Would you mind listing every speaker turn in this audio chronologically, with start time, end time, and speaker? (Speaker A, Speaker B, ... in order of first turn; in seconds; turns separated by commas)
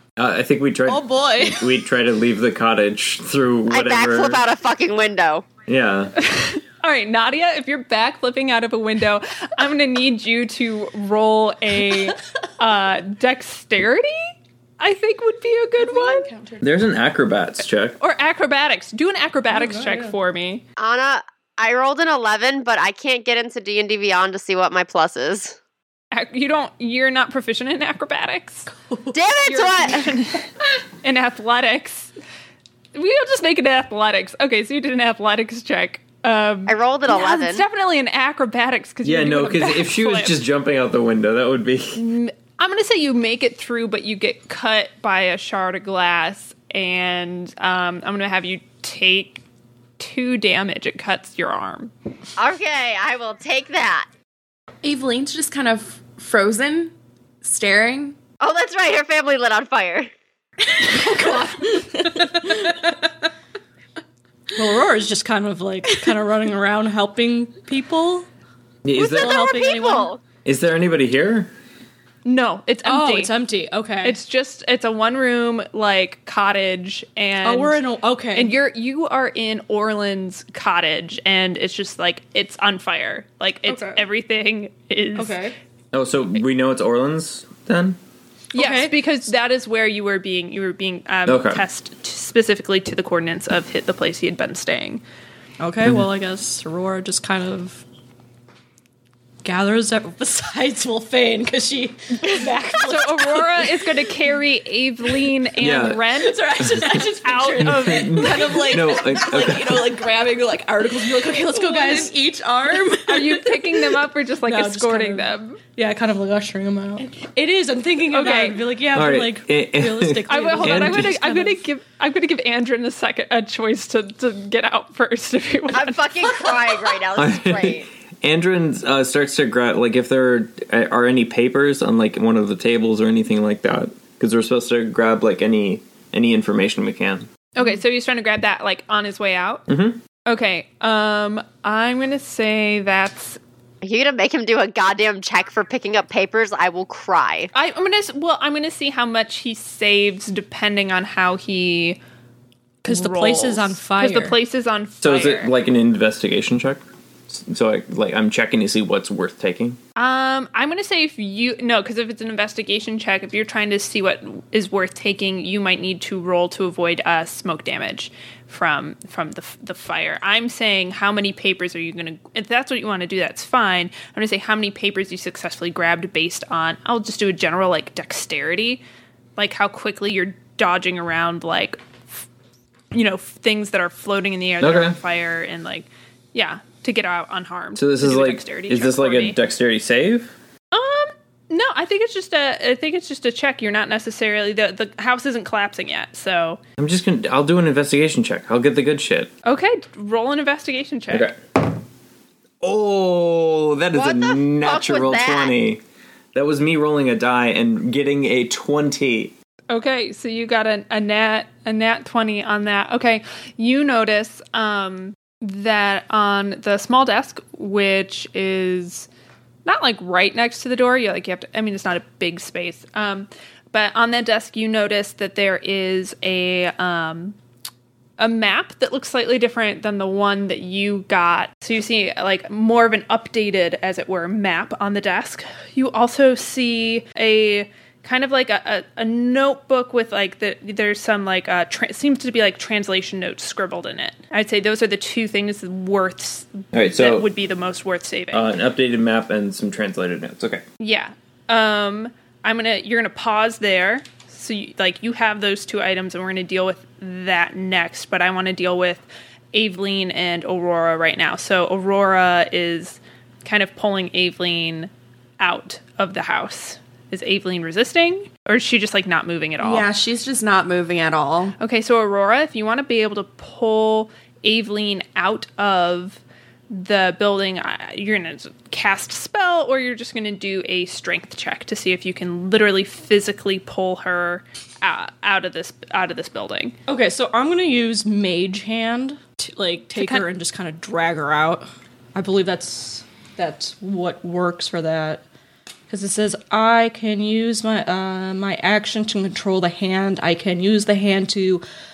Speaker A: 0.2-4.4, Speaker B: 0.9-1.6, Speaker C: 3.7-5.5, Speaker A: 5.7-6.2, Speaker D: 6.2-16.3, Speaker E: 15.8-16.8, Speaker A: 16.6-18.0, Speaker D: 18.0-20.6, Speaker B: 19.5-20.1, Speaker C: 20.8-25.6, Speaker D: 26.1-28.7, Speaker C: 29.1-30.1, Speaker D: 29.4-32.1, Speaker D: 32.9-40.4, Speaker C: 36.7-37.6, Speaker A: 39.0-42.0, Speaker D: 41.9-49.4, Speaker D: 50.0-51.9, Speaker C: 52.4-54.1, Speaker E: 54.8-58.1, Speaker C: 58.4-60.1, Speaker E: 61.0-61.3, Speaker C: 61.1-61.6, Speaker B: 61.2-63.0, Speaker B: 64.5-68.3, Speaker A: 68.8-69.4, Speaker C: 69.0-70.2, Speaker B: 69.0-70.1, Speaker A: 70.4-71.5, Speaker D: 72.2-73.3, Speaker B: 72.8-74.2, Speaker D: 74.0-77.8, Speaker B: 77.4-78.5, Speaker D: 78.3-85.4, Speaker B: 83.7-84.0, Speaker B: 85.2-85.5, Speaker A: 85.9-88.0, Speaker D: 88.5-95.0, Speaker B: 88.5-88.9, Speaker A: 91.2-91.6, Speaker B: 95.6-97.8, Speaker B: 99.4-104.0, Speaker D: 102.8-106.4, Speaker A: 105.6-106.9, Speaker B: 106.2-112.2, Speaker D: 106.9-108.6, Speaker A: 107.6-110.0, Speaker E: 108.4-110.2, Speaker E: 110.8-113.4, Speaker D: 113.0-115.6, Speaker B: 113.3-113.6, Speaker B: 114.4-121.6, Speaker D: 118.1-118.6, Speaker A: 118.9-121.1, Speaker D: 120.3-126.7, Speaker C: 125.7-127.9, Speaker A: 127.1-137.3, Speaker D: 137.5-139.7, Speaker A: 139.7-140.0, Speaker D: 140.2-143.4, Speaker C: 143.8-147.5, Speaker D: 147.5-152.0, Speaker D: 152.8-155.5, Speaker B: 152.8-154.4, Speaker A: 155.0-159.8, Speaker D: 159.9-178.8, Speaker D: 179.4-182.2, Speaker D: 182.9-189.4, Speaker A: 184.6-185.0, Speaker A: 187.8-190.3, Speaker D: 190.7-196.6, Speaker A: 196.8-199.3, Speaker D: 199.4-201.3, Speaker A: 201.1-201.7, Speaker A: 202.6-205.8, Speaker C: 203.9-205.5, Speaker A: 206.3-209.3, Speaker D: 209.7-219.1, Speaker D: 219.6-227.4, Speaker D: 228.2-248.5, Speaker A: 246.7-247.3, Speaker A: 248.3-250.6, Speaker D: 250.8-269.9, Speaker E: 269.6-271.6, Speaker D: 271.6-286.8, Speaker B: 286.9-295.2, Speaker D: 289.9-290.2, Speaker B: 295.9-301.6